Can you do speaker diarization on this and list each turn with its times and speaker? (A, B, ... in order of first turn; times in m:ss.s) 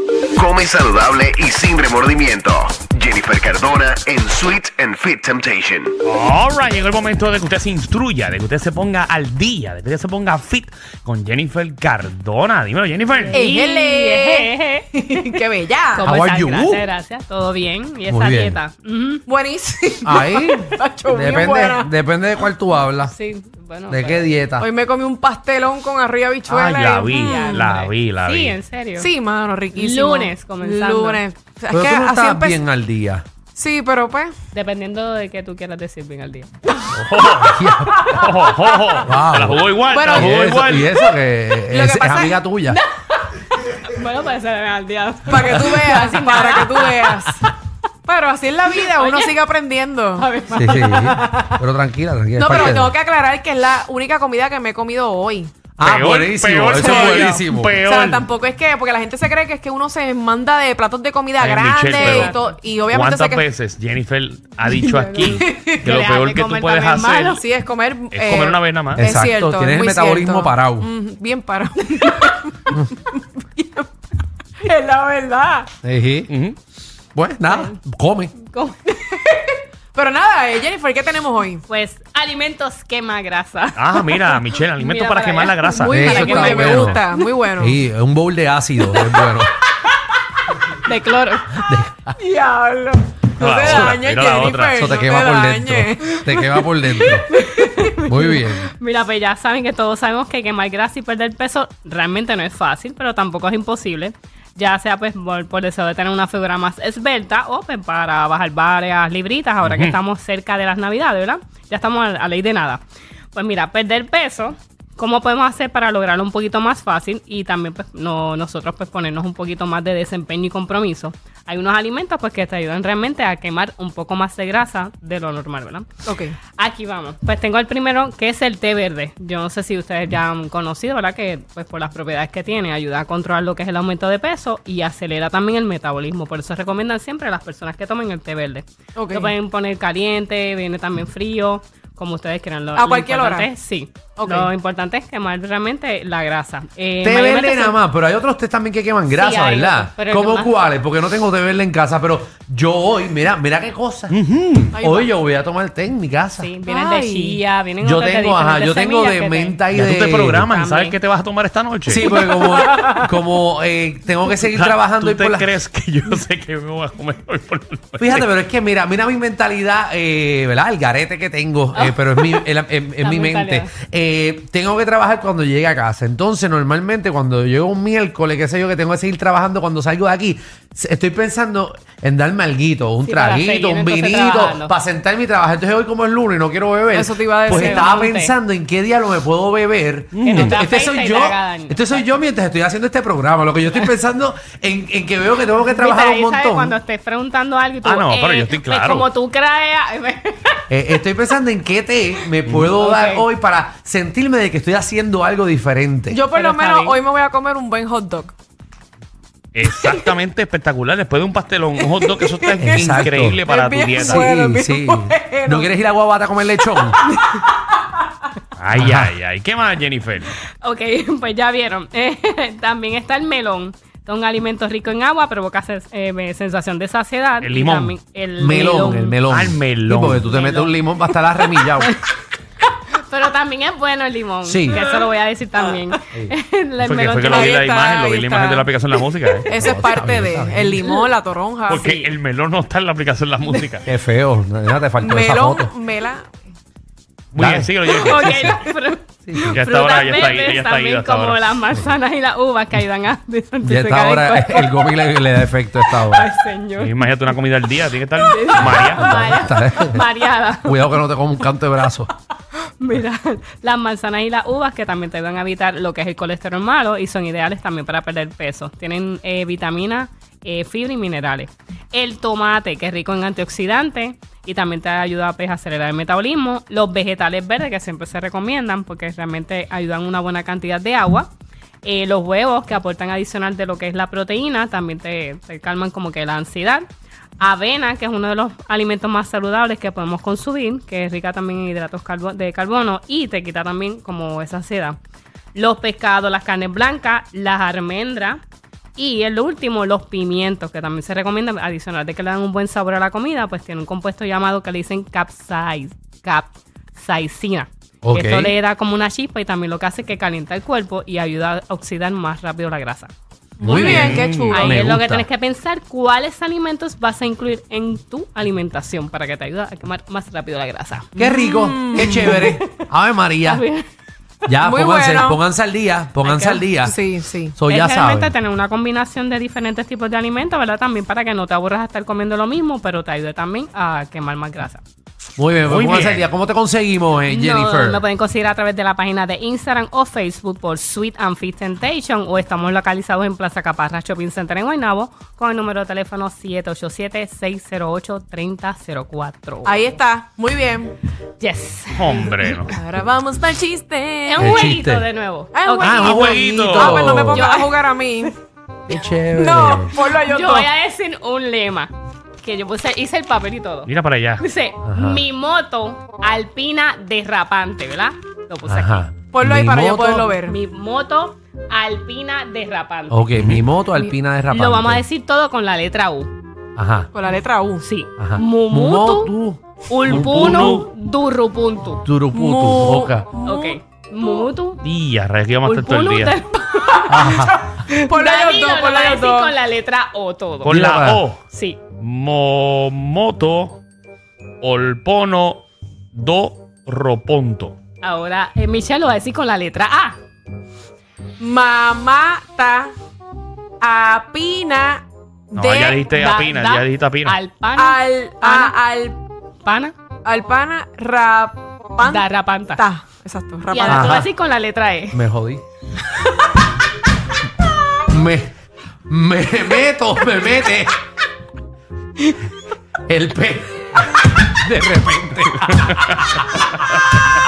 0:00.4-0:05.9 A
0:06.0-0:13.5 B
0:13.1-0:15.4 C
0:13.3-0:16.1 D
0:15.9-0:19.2 C
0:16.0-0:16.8 E
0:18.1-0:18.6 E
0:19.3-0:21.9 D
0:20.0-0:23.1 E
0:23.0-0:24.3 C
0:23.9-0:24.7 E
0:24.6-0:27.7 D
0:26.5-0:28.6 B
0:27.1-0:29.1 C
0:29.0-0:32.6 D
0:29.7-0:31.2 C
0:31.7-0:33.2 E
0:33.5-0:34.3 D
0:34.5-0:36.5 C
0:36.9-0:40.9 B
0:37.0-0:38.3 E
0:39.0-0:42.8 E
0:39.9-0:40.7 D
0:41.7-0:42.4 D
0:42.7-0:47.5 C
0:45.3-0:47.5 D
0:48.0-0:50.3 D
0:48.7-0:49.3 C
0:50.2-0:51.2 C
0:50.5-0:53.0 E
0:50.8-0:51.6 D
0:52.4-0:55.5 D
0:55.8-0:57.8 E
0:55.8-0:58.3 B
0:56.7-1:03.4 D
1:01.4-1:07.4 B
1:01.9-1:02.5 C
1:04.6-1:05.9 D
1:05.8-1:07.4 C
1:07.3-1:13.9 D
1:08.1-1:09.0 B
1:09.0-1:10.9 E
1:14.6-1:15.7 D
1:15.8-1:16.3 E
1:16.3-1:16.6 B
1:17.1-1:18.3 E
1:18.4-1:19.3 C
1:19.2-1:21.6 D
1:21.7-1:27.2 C
1:23.8-1:26.1 B
1:25.8-1:27.8 D
1:25.9-1:27.0 E
1:27.6-1:29.5 E
1:28.9-1:29.3 D
1:30.8-1:31.6 C
1:31.5-1:32.2 E
1:32.2-1:37.2 D
1:33.4-1:34.9 B
1:33.6-1:37.3 E
1:37.3-2:05.9 C
1:37.9-1:38.7 E
1:49.6-1:50.0 B
2:06.0-2:06.4 D
2:06.6-2:27.8 C
2:19.0-2:19.3 D
2:22.7-2:23.5 D
2:24.2-2:24.5 D
2:27.0-2:34.1 E
2:29.1-2:30.6 C
2:34.1-2:34.8 B
2:34.7-2:36.5 E
2:34.7-2:35.1 D
2:36.4-2:39.6 C
2:36.6-2:37.4 D
2:37.8-2:40.5 E
2:39.7-2:42.1 B
2:40.5-2:41.0 C
2:41.8-2:45.5 E
2:42.2-2:43.0 C
2:42.2-2:43.0 D
2:44.5-2:48.2 B
2:48.0-3:16.8 E
2:51.7-2:52.4 C
2:53.0-2:53.7 C
3:03.0-3:04.7 C
3:06.9-3:08.0 D
3:07.4-3:08.3 C
3:10.1-3:10.6 B
3:10.4-3:12.1 C
3:15.7-3:20.6 C
3:17.8-3:19.1 B
3:20.7-3:26.2 E
3:22.4-3:22.7 B
3:22.8-3:23.2 C
3:26.1-3:28.3 D
3:26.3-3:27.0 C
3:29.5-3:34.3 B
3:29.8-3:30.0 D
3:31.8-3:35.7 D
3:32.6-3:33.4 E
3:34.0-3:37.0 E
3:36.8-3:37.5 D
3:38.6-3:40.3 B
3:38.8-3:39.1 E
3:40.6-3:49.2 C
3:47.4-3:48.0 B
3:48.4-3:51.9 E
3:49.3-3:50.3 B
3:50.2-3:52.0 C
3:52.9-3:57.6 C
3:54.4-3:54.8 E
3:54.7-3:55.0 D
3:56.8-3:59.6 B
3:57.2-3:58.7 D
3:59.4-4:02.1 D
3:59.5-4:00.8 E
4:01.7-4:03.9 B
4:03.8-4:05.7 E
4:05.0-4:06.3 D
4:07.3-4:08.6 B
4:07.4-4:08.5 E
4:07.9-4:15.2 C
4:09.3-4:09.6 E
4:09.4-4:11.6 B
4:13.6-4:16.3 E
4:15.8-4:16.9 C
4:16.8-4:19.2 B
4:18.2-4:20.9 C
4:18.6-4:20.0 E
4:20.6-4:22.1 E
4:22.8-4:41.3 C
4:41.8-4:46.8 C
4:47.4-4:55.0 C
4:55.5-4:58.4 C
4:59.0-5:13.1 C
5:08.0-5:08.6 E
5:13.6-5:14.8 D
5:13.6-5:15.3 E
5:13.6-5:14.6 B
5:14.5-5:21.1 C
5:21.2-5:23.6 E
5:21.2-5:22.5 D
5:22.2-5:22.8 C
5:23.4-5:23.8 C
5:24.4-5:27.0 E
5:24.6-5:25.4 D
5:26.2-5:26.7 C
5:26.8-5:27.6 D
5:27.5-5:28.3 E
5:27.7-5:34.8 C
5:35.4-5:38.0 E
5:35.7-5:36.3 B
5:37.3-5:50.0 C
5:49.6-5:51.0 D
5:51.4-5:52.4 C
5:51.9-5:52.8 B
5:52.6-5:54.7 D
5:54.2-5:57.9 C
5:54.4-5:55.1 E
5:55.5-5:58.3 D
5:55.8-5:57.5 E
5:55.9-5:57.0 B
5:58.9-6:00.0 E
5:59.3-6:00.7 D
6:00.1-6:09.1 C
6:03.8-6:04.4 B
6:04.8-6:05.2 E
6:08.7-6:10.3 E
6:09.3-6:10.6 D
6:10.4-6:13.3 C
6:13.1-6:15.0 E
6:13.4-6:13.6 B
6:14.5-6:16.3 C
6:16.8-6:17.1 E
6:17.1-6:17.9 D
6:17.8-6:19.3 C
6:18.2-6:20.8 E
6:19.9-6:22.0 C
6:20.0-6:20.9 B
6:22.0-6:23.3 E
6:22.3-6:24.4 D
6:23.4-6:24.8 C
6:24.8-6:26.4 B
6:25.6-6:30.8 C
6:27.1-6:27.6 E
6:27.1-6:29.5 D
6:30.6-6:33.8 B
6:30.7-6:31.2 E
6:31.5-6:31.8 C
6:34.6-6:37.8 B
6:38.0-6:40.2 C
6:41.4-6:42.9 D
6:43.8-6:46.1 D
6:45.5-6:47.4 B
6:46.0-6:48.8 C
6:47.7-6:49.2 D
6:49.6-6:49.9 C
6:50.2-6:54.2 D
6:52.0-6:52.8 C
6:53.7-6:55.2 C
6:53.8-6:54.3 E
6:55.1-6:55.6 E
6:58.1-6:58.5 E
6:59.1-7:01.0 E
7:03.0-7:06.1 E
7:05.9-7:06.2 B